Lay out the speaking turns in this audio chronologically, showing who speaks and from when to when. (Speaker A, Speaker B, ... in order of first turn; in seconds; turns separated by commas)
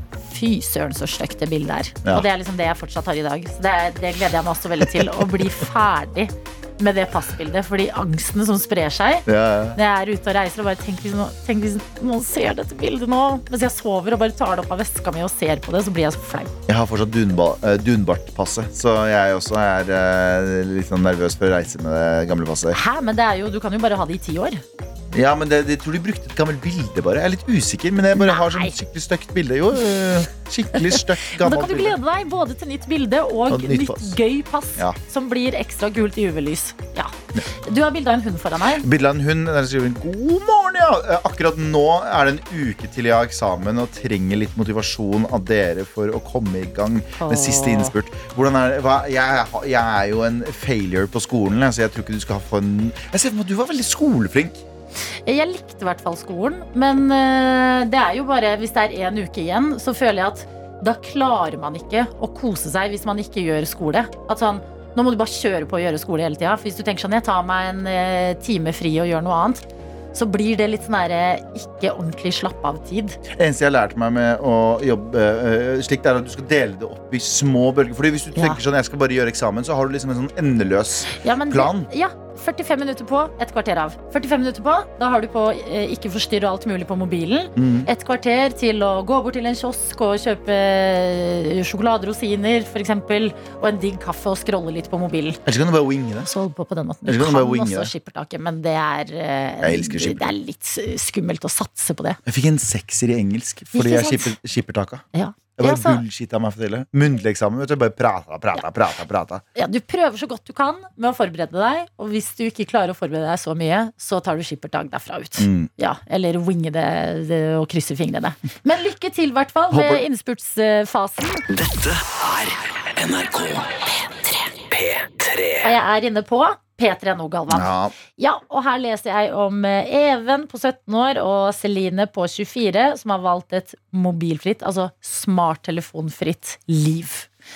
Speaker A: 0.2-16.5, Speaker B: 4.9-5.2, Speaker B: 9.2-9.8, Speaker B: 16.7-22.8, Speaker A: 22.7-24.6, Speaker B: 25.1-32.0, Speaker A: 28.1-28.7, Speaker A: 30.8-38.8, Speaker B: 33.5-34.2, Speaker B: 38.8-54.6, Speaker A: 47.2-47.9, Speaker A: 55.2-73.2, Speaker B: 73.3-81.9, Speaker A: 78.3-78.6, Speaker A: 81.1-95.4, Speaker B: 87.5-87.9, Speaker B: 95.4-96.3, Speaker A: 96.2-102.2, Speaker B: 97.0-97.9, Speaker B: 99.6-100.3, Speaker B: 102.2-105.0, Speaker A: 103.7-104.3, Speaker A: 105.1-106.0, Speaker B: 105.6-109.4, Speaker A: 109.5-121.4, Speaker B: 115.4-115.7, Speaker B: 119.7-120.0, Speaker C: 121.5-125.7, Speaker A: 125.6-137.3, Speaker B: 127.5-128.0